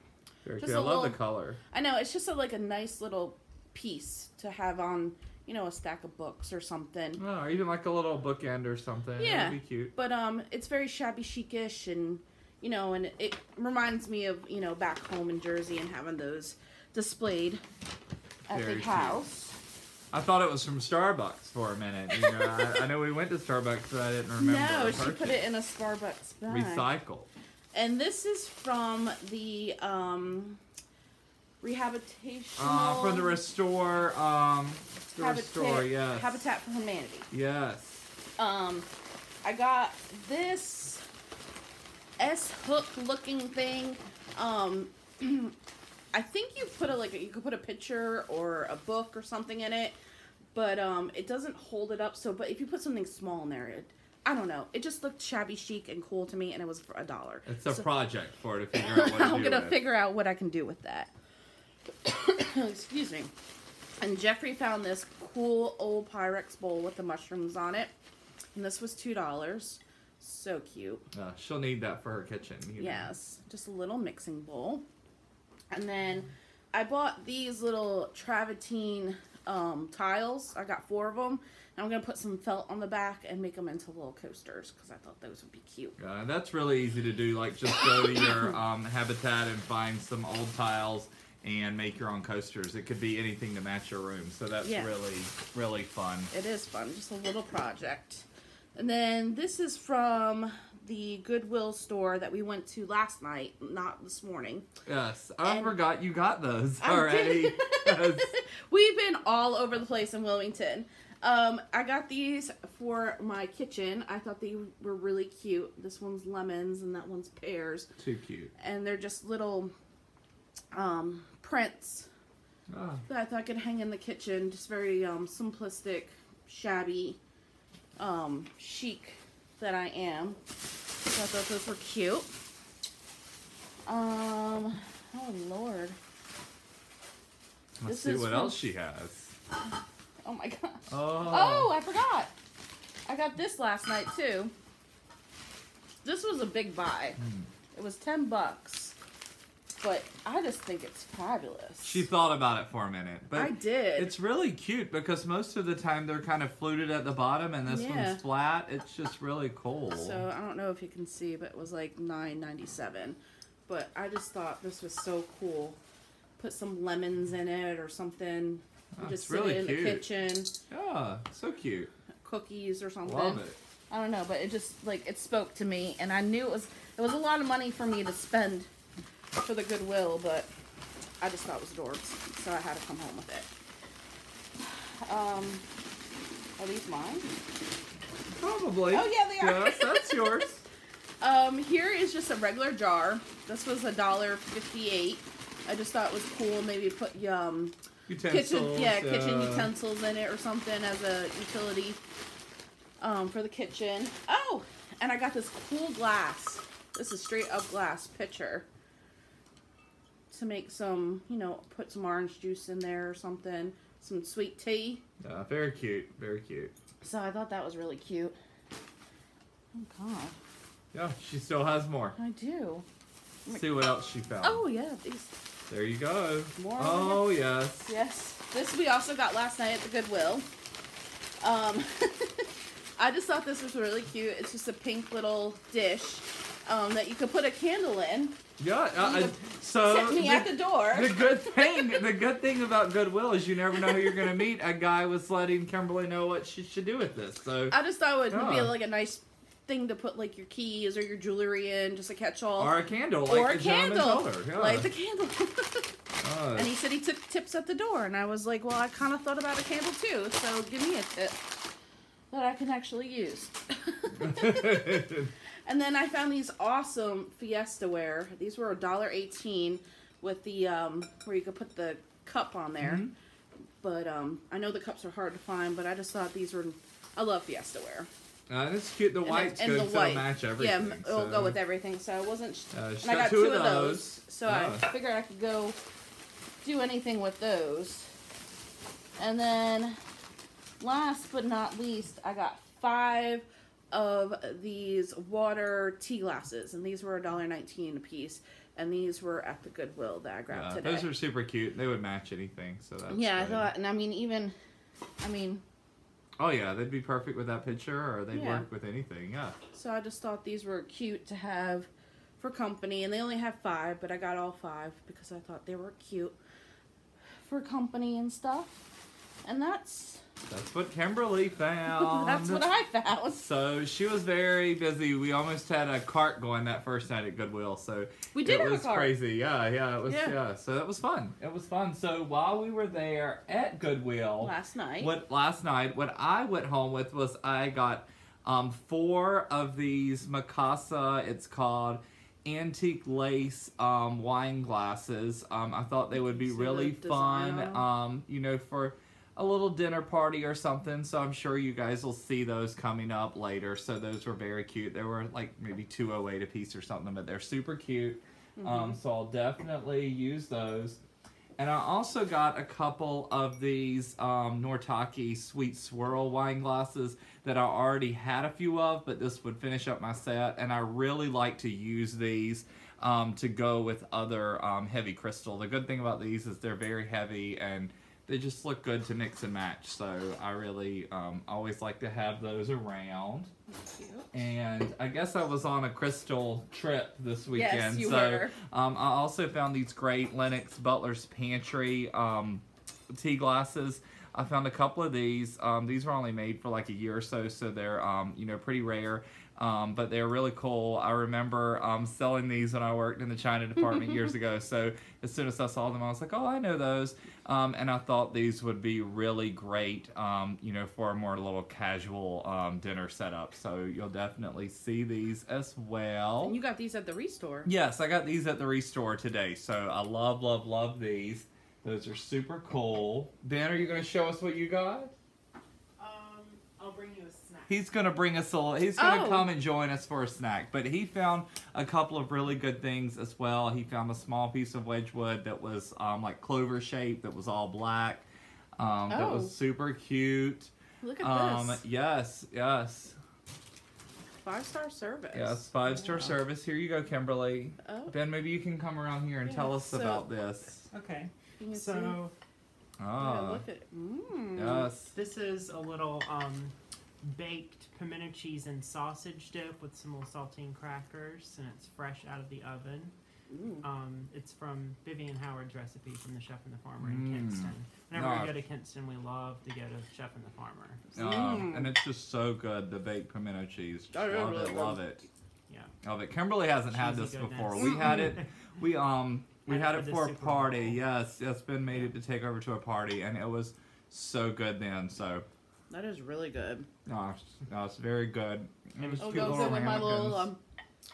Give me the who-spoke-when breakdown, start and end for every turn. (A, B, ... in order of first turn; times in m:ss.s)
0:00.4-0:01.6 A
0:00.6-0:01.2 B
0:01.7-0:07.2 B
0:07.2-0:09.9 A
0:09.2-0:17.6 B
0:18.5-0:19.6 B
0:18.5-0:19.2 A
0:20.1-0:25.4 A
0:24.4-0:26.9 B
0:26.5-0:27.3 A
0:27.7-0:30.6 B
0:31.6-0:33.4 B
0:32.6-0:36.4 A
0:35.1-0:37.3 B
0:37.3-0:38.1 A
0:38.4-0:38.9 B
0:39.4-0:41.0 B
0:42.2-0:45.6 B
0:46.1-0:50.0 B
0:50.5-0:57.9 B
0:57.5-0:59.8 A
0:58.7-1:01.1 B
1:02.0-1:03.3 B
1:04.0-1:07.9 B
1:08.6-1:11.1 B
1:11.1-1:13.1 A
1:12.8-1:14.8 B
1:15.7-1:26.0 B
1:26.0-1:36.3 A
1:34.6-1:34.9 B
1:36.3-1:44.7 B
1:44.9-1:48.4 A
1:45.4-1:45.8 B
1:46.8-1:57.9 B
1:58.0-1:58.5 A
1:58.6-1:59.7 B
2:00.7-2:02.1 B
2:02.7-2:03.0 A
2:03.1-2:07.2 B
2:08.0-2:10.4 B
2:11.1-2:12.3 B
2:13.9-2:16.0 B
2:17.8-2:19.3 A
2:17.8-2:18.7 B
2:20.2-2:22.3 B
2:20.9-2:21.7 A
2:23.1-2:24.5 B
2:26.0-2:27.2 B
2:27.2-2:27.5 A
2:27.7-2:29.0 B
2:29.8-2:32.0 B
2:31.8-2:40.2 A
2:33.3-2:34.1 B
2:37.7-2:38.2 B
2:39.9-2:45.8 B
2:46.4-2:50.5 B
2:49.0-2:50.0 A
2:50.7-2:51.9 A
2:52.2-2:58.7 B
2:53.0-2:53.6 A
2:59.4-3:00.5 B
3:01.2-3:03.5 B
3:04.6-3:05.6 B
3:06.6-3:07.3 B
3:08.4-3:10.6 A
3:08.9-3:10.2 B
3:11.2-3:17.8 B
3:18.1-3:19.7 A
3:18.3-3:22.0 B
3:23.0-3:28.7 B
3:30.3-3:35.0 B
3:35.2-3:36.7 A
3:37.0-3:38.4 B
3:39.7-3:40.4 B
3:40.9-3:42.2 A
3:42.2-3:42.9 B
3:43.5-3:44.6 A
3:44.4-3:45.4 B
3:45.7-3:47.9 A
3:46.6-3:47.3 B
3:47.9-3:50.5 B
3:51.4-3:58.4 B
3:58.6-4:07.8 A
3:59.0-4:02.0 B
4:03.7-4:04.3 B
4:07.7-4:15.9 B
4:08.3-4:08.7 A
4:12.6-4:14.9 A
4:16.2-4:16.7 A
4:16.6-4:21.4 B
4:22.3-4:25.0 B
4:24.2-4:25.3 A
4:25.6-4:33.1 B
4:32.8-4:33.1 A
4:33.8-4:38.1 B
4:38.5-4:41.6 A
4:39.2-4:45.8 B
4:42.7-4:44.9 A
4:46.6-4:48.1 B
4:49.2-4:50.0 B
4:50.8-5:01.1 B
5:00.5-5:03.7 A
5:03.1-5:04.6 B
5:05.2-5:05.6 B
5:06.4-5:09.6 A
5:08.3-5:08.7 B
5:09.7-5:16.4 B
5:17.4-5:18.8 B
5:19.4-5:20.2 B
5:20.5-5:22.6 A
5:21.9-5:23.4 B
5:23.3-6:01.0 A
5:28.3-5:29.1 B
5:30.1-5:30.4 B
5:34.4-5:35.1 B
5:46.1-5:47.9 B
5:58.6-5:59.0 B
6:01.6-6:23.5 A
6:23.7-6:24.4 B
6:24.3-6:32.6 A
6:27.5-6:28.6 B
6:33.1-6:56.6 A
6:56.4-6:57.7 B
6:57.6-7:05.1 A
7:06.0-7:07.8 C
7:07.7-7:18.3 A
7:09.0-7:09.5 B
7:18.8-7:23.2 A
7:19.1-7:19.5 B
7:21.0-7:21.8 B
7:24.4-7:25.6 B
7:25.3-7:30.9 A
7:25.9-7:26.4 C
7:27.8-7:28.1 B
7:29.5-7:30.2 B
7:30.9-7:32.3 C
7:31.6-7:32.2 B
7:33.0-7:33.6 A
7:33.2-7:34.9 B
7:34.6-7:35.1 A
7:35.1-7:43.2 C
7:43.5-7:43.8 B
7:43.8-7:51.1 C
7:47.0-7:48.5 A
7:51.1-7:51.9 B
7:51.2-7:55.3 A
7:54.1-7:55.2 B
7:55.7-7:55.9 C
7:56.0-8:05.5 A
7:56.9-7:58.6 C
7:59.7-8:01.1 C
8:05.9-8:06.9 B
8:07.1-8:10.5 A
8:09.0-8:10.0 C
8:09.2-8:10.6 B